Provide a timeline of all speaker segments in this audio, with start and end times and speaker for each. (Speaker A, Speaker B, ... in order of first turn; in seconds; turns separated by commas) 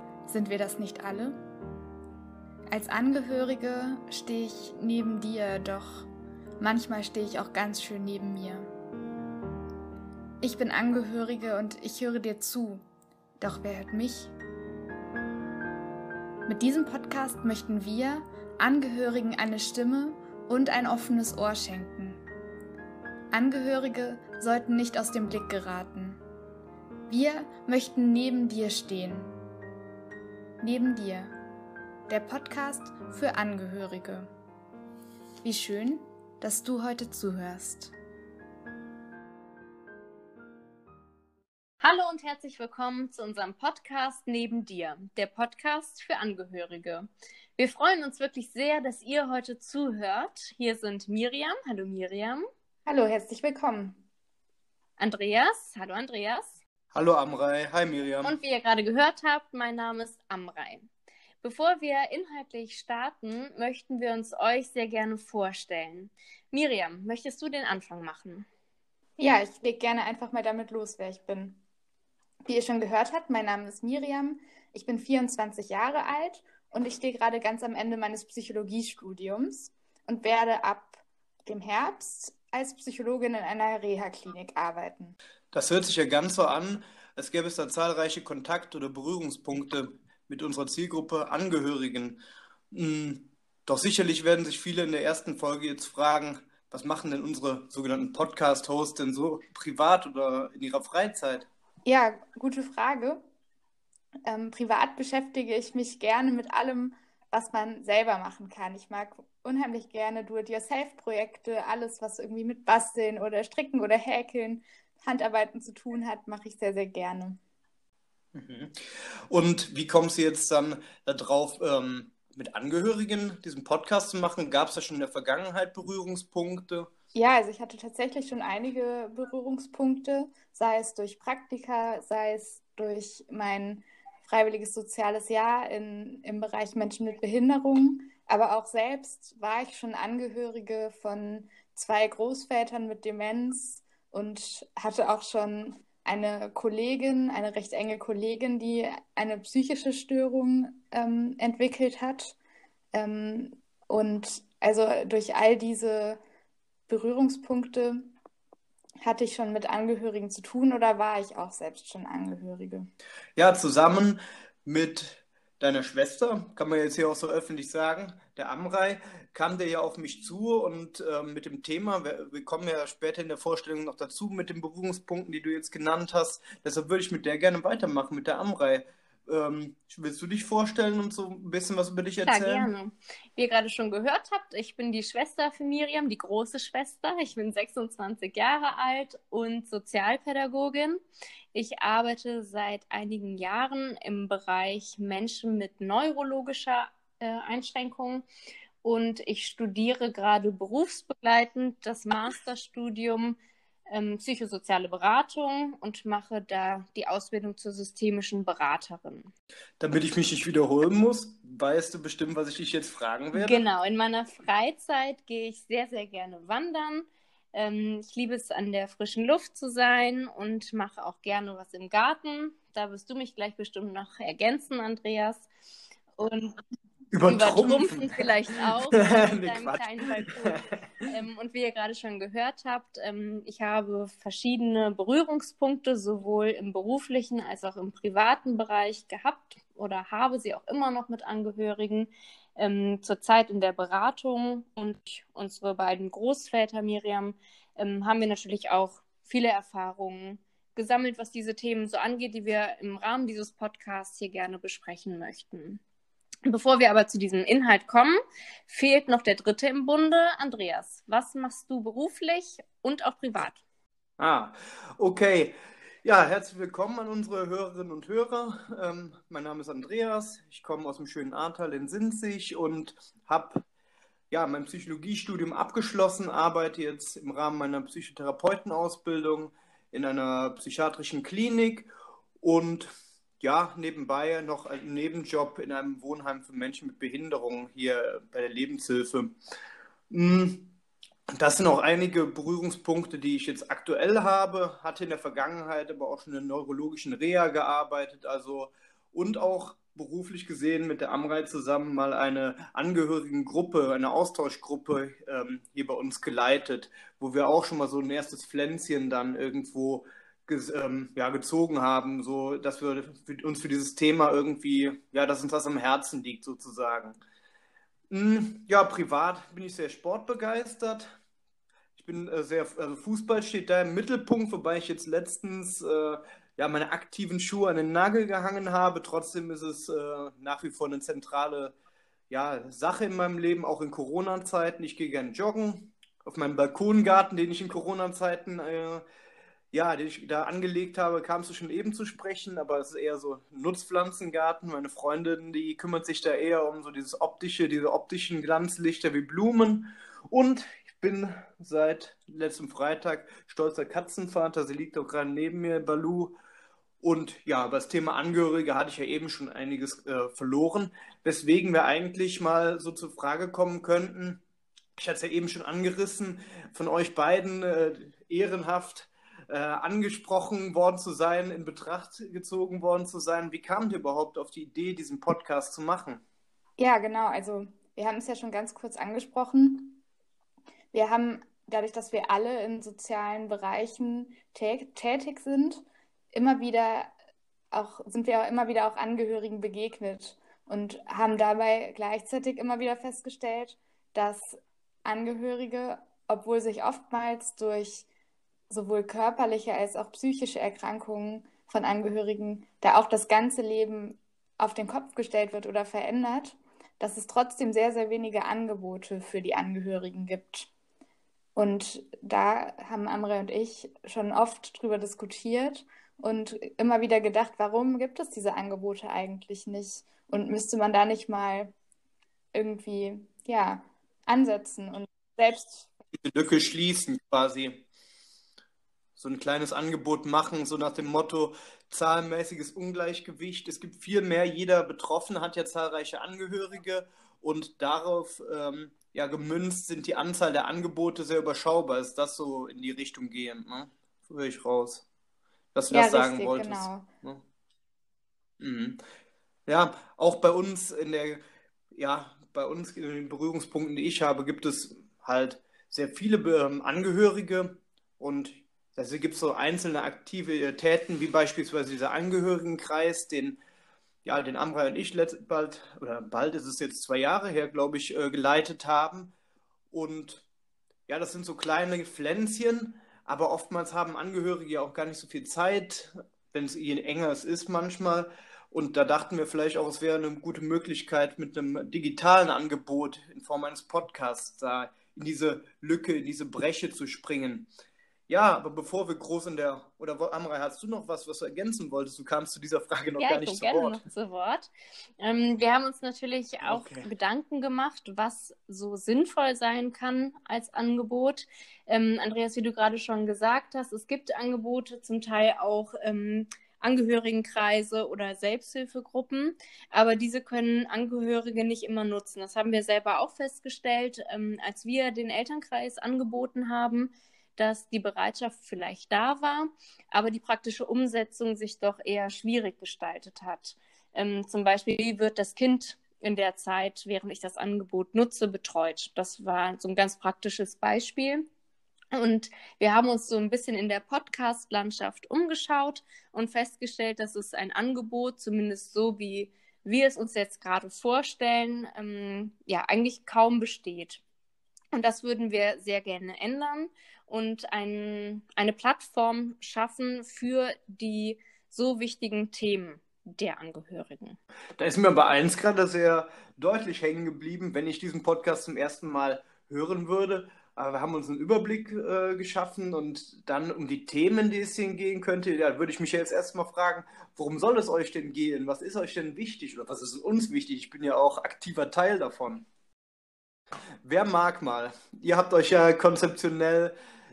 Speaker A: 0.3-1.4, Speaker A: 2.7-6.1, Speaker A: 6.6-8.7, Speaker A: 10.4-12.8, Speaker A: 13.4-14.3, Speaker A: 16.4-22.2, Speaker A: 23.3-26.2, Speaker A: 27.1-29.3, Speaker A: 30.6-31.3, Speaker A: 32.1-34.3, Speaker A: 35.4-37.9, Speaker B: 41.8-52.5, Speaker A: 52.9-54.0, Speaker B: 55.0-56.6, Speaker C: 56.9-58.4, Speaker B: 58.2-60.9, Speaker B: 61.4-68.5, Speaker A: 69.2-71.6, Speaker A: 72.4-85.2, Speaker C: 85.5-92.2, Speaker C: 92.7-101.5, Speaker A: 101.8-103.2, Speaker A: 104.2-117.4, Speaker C: 118.3-118.7, Speaker C: 119.3-126.9, Speaker A: 127.1-152.3, Speaker A: 152.9-156.2, Speaker A: 156.9-158.1, Speaker A: 159.0-162.9, Speaker C: 163.3-182.7, Speaker B: 182.2-191.0, Speaker B: 191.5-198.2, Speaker B: 198.8-203.4, Speaker B: 203.9-209.3, Speaker C: 209.8-213.6, Speaker B: 213.3-225.5, Speaker B: 226.2-226.6, Speaker C: 227.1-228.3, Speaker B: 227.3-255.8, Speaker C: 228.9-231.1, Speaker B: 256.4-263.6, Speaker C: 264.2-273.6, Speaker C: 274.3-281.9, Speaker C: 282.4-289.3, Speaker C: 290.1-290.7, Speaker C: 291.3-317.2, Speaker C: 318.1-321.1, Speaker C: 321.9-331.8, Speaker C: 332.3-339.0, Speaker C: 339.7-356.4, Speaker C: 357.0-364.4, Speaker C: 364.9-376.2, Speaker A: 376.8-380.0, Speaker A: 380.9-387.1, Speaker A: 387.7-398.1, Speaker A: 398.7-410.7, Speaker A: 411.6-421.7, Speaker A: 422.5-425.9, Speaker C: 426.1-427.9, Speaker C: 429.2-445.0, Speaker C: 445.7-447.4, Speaker A: 445.9-447.1, Speaker C: 448.6-449.0, Speaker C: 449.7-451.4, Speaker C: 451.9-463.6, Speaker C: 464.2-469.3, Speaker C: 469.9-470.5, Speaker C: 471.1-487.7, Speaker C: 488.3-494.0, Speaker B: 493.2-531.4, Speaker C: 496.6-497.1, Speaker B: 532.1-544.2, Speaker B: 544.9-554.4, Speaker C: 554.8-572.6, Speaker C: 574.0-576.9